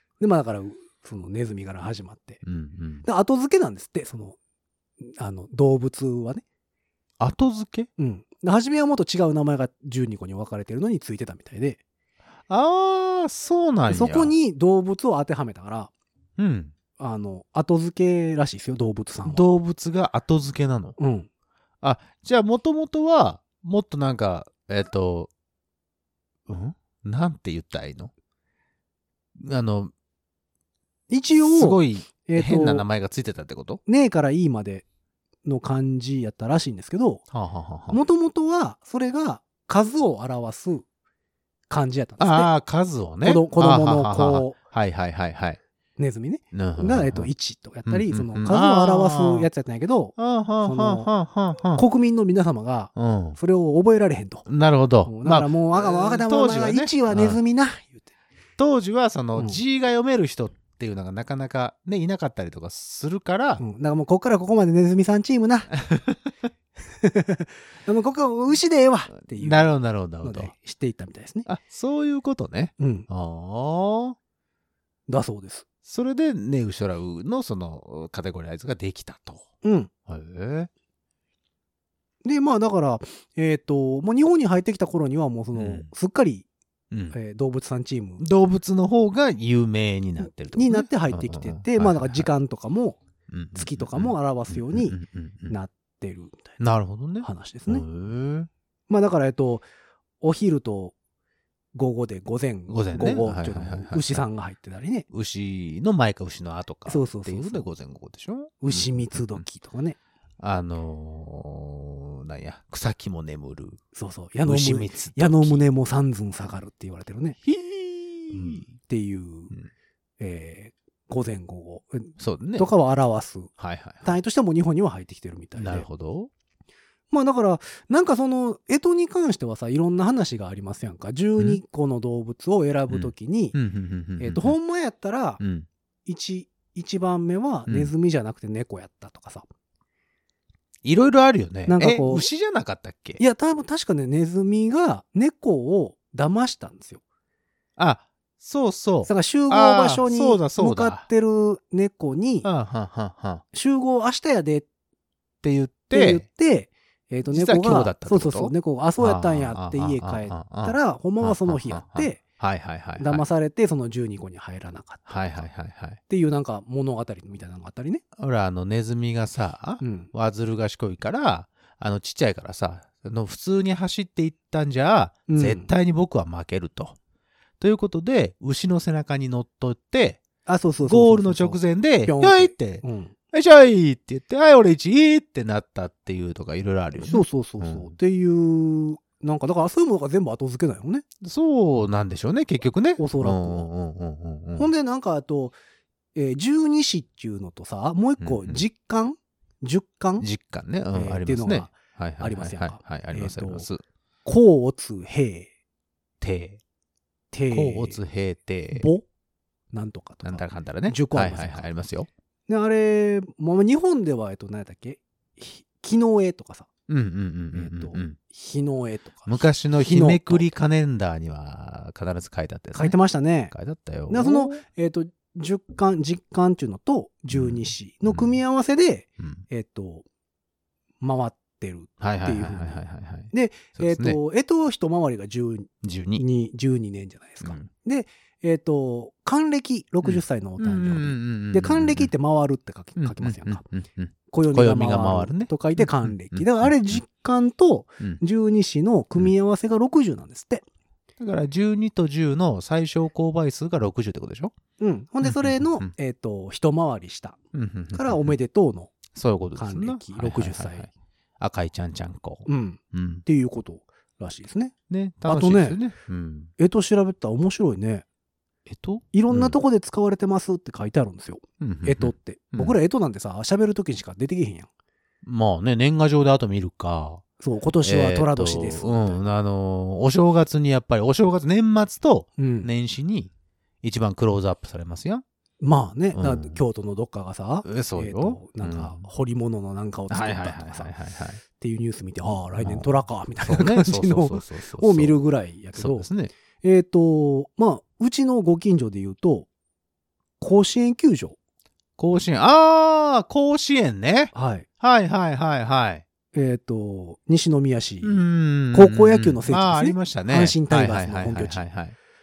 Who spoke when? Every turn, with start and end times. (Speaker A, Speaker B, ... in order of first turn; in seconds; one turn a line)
Speaker A: 0.2-2.4
Speaker B: 2.4-3.0
Speaker A: 3.0-4.4
Speaker A: 5.0-6.4
Speaker B: 7.2-7.9
Speaker A: 8.0-11.8
Speaker B: 12.5-14.3
Speaker A: 13.9-15.9
Speaker B: 16.4-16.7
Speaker A: 17.0-19.5
Speaker B: 19.2-21.0
Speaker A: 21.0-21.3
Speaker B: 21.8-25.3
Speaker B: 26.5-28.1
Speaker B: 29.4-29.9
Speaker A: 31.1-32.9
Speaker B: 31.4-33.8
Speaker A: 33.9-34.9
Speaker A: 35.5-37.2
Speaker B: 37.3-38.0
Speaker A: 37.9-40.9
Speaker A: 41.7-42.5
Speaker B: 42.2-45.6
Speaker A: 43.2-44.6
Speaker A: 46.0-51.1
Speaker B: 46.5-47.3
Speaker B: 47.9-49.5
Speaker B: 50.2-51.9
Speaker A: 51.7-54.5
Speaker B: 53.0-53.4
Speaker B: 54.5-57.4
Speaker A: 55.0-58.1
Speaker B: 58.6-63.6
Speaker A: 63.6-65.7
Speaker B: 65.9-66.2
Speaker A: 67.0-69.7
Speaker B: 69.3-70.5
Speaker A: 70.2-71.5
Speaker B: 71.5-74.2
Speaker A: 72.8-73.1
Speaker A: 75.1-75.7
Speaker B: 75.8-79.5
Speaker A: 79.6-79.9
Speaker B: 80.1-80.7
Speaker A: 82.2-86.5
Speaker B: 85.5-85.9
Speaker B: 86.9-87.2
Speaker A: 87.1-88.2
Speaker B: 88.2-92.3
Speaker A: 90.5-93.0
Speaker B: 93.3-95.6
Speaker A: 93.5-95.0
Speaker A: 95.5-96.6
Speaker B: 96.6-98.5
Speaker A: 97.2-97.8
Speaker A: 98.9-99.7
Speaker A: 100.2-100.9
Speaker A: 101.8-105.1
Speaker B: 102.7-104.3
Speaker B: 105.1-109.4
Speaker A: 106.9-107.7
Speaker A: 108.6-110.0
Speaker B: 110.4-113.8
Speaker A: 113.9-117.4
Speaker B: 114.5-115.6
Speaker B: 117.4-118.7
Speaker A: 118.3-119.5
Speaker A: 120.2-123.5
Speaker B: 122.2-122.7
Speaker B: 123.6-124.2
Speaker A: 124.0-125.9
Speaker B: 125.6-126.3
Speaker A: 127.1-133.6
Speaker B: 132.9-134.6
Speaker A: 134.2-135.4
Speaker B: 135.4-135.7
Speaker A: 136.1-139.5
Speaker B: 137.7-137.9
Speaker B: 140.8-143.2
Speaker A: 141.7-142.3
Speaker A: 143.2-147.0
Speaker B: 147.8-151.1
Speaker A: 149.1-152.5
Speaker B: 152.4-153.4
Speaker A: 153.5-154.7
Speaker B: 155.4-156.2
Speaker A: 155.9-162.2
Speaker B: 157.3-163.2
Speaker A: 163.0-165.5
Speaker B: 165.1-166.0
Speaker A: 166.1-168.0
Speaker B: 168.2-177.0
Speaker A: 169.8-170.1
Speaker A: 175.3-175.7
Speaker B: 177.6-180.2
Speaker A: 180.5-183.1
Speaker B: 180.8-187.9
Speaker A: 187.0-191.1
Speaker B: 191.2-194.7
Speaker A: 193.0-193.7
Speaker A: 194.6-195.6
Speaker A: 196.2-200.3
Speaker B: 198.2-198.6
Speaker B: 200.2-203.8
Speaker A: 200.9-203.7
Speaker A: 204.2-205.5
Speaker B: 206.2-206.6
Speaker A: 207.3-208.0
Speaker B: 207.5-208.9
Speaker A: 208.7-209.1
Speaker A: 209.7-211.7
Speaker B: 210.2-212.1
Speaker A: 212.5-216.7
Speaker B: 216.9-218.2
Speaker A: 217.5-220.4
Speaker B: 219.3-223.0
Speaker A: 222.7-223.5
Speaker B: 223.5-224.6
Speaker A: 224.1-230.1
Speaker B: 227.3-228.3
Speaker A: 231.0-243.6
Speaker B: 232.0-234.2
Speaker B: 235.8-236.2
Speaker B: 237.4-237.7
Speaker B: 240.0-242.1
Speaker B: 243.0-247.0
Speaker A: 244.3-250.6
Speaker B: 251.2-254.5
Speaker A: 254.8-257.4
Speaker B: 255.2-255.9
Speaker B: 257.5-258.4
Speaker A: 257.9-259.0
Speaker B: 259.1-263.2
Speaker A: 259.6-260.9
Speaker A: 262.5-264.7
Speaker B: 264.9-266.5
Speaker A: 265.3-265.8
Speaker A: 266.6-268.1
Speaker B: 268.7-269.6
Speaker A: 269.1-274.7
Speaker B: 271.6-272.8
Speaker B: 275.2-277.2
Speaker A: 277.4-279.2
Speaker B: 277.8-283.3
Speaker A: 282.4-282.7
Speaker B: 283.8-285.2
Speaker A: 285.6-290.9
Speaker B: 286.1-286.6
Speaker B: 287.6-289.1
Speaker B: 290.1-291.4
Speaker A: 291.6-296.1
Speaker B: 292.6-292.9
Speaker B: 293.4-295.2
Speaker B: 295.8-296.3
Speaker A: 296.6-299.5
Speaker A: 300.4-301.4
Speaker B: 302.0-306.0
Speaker A: 304.3-304.7
Speaker A: 306.3-311.7
Speaker B: 308.0-312.0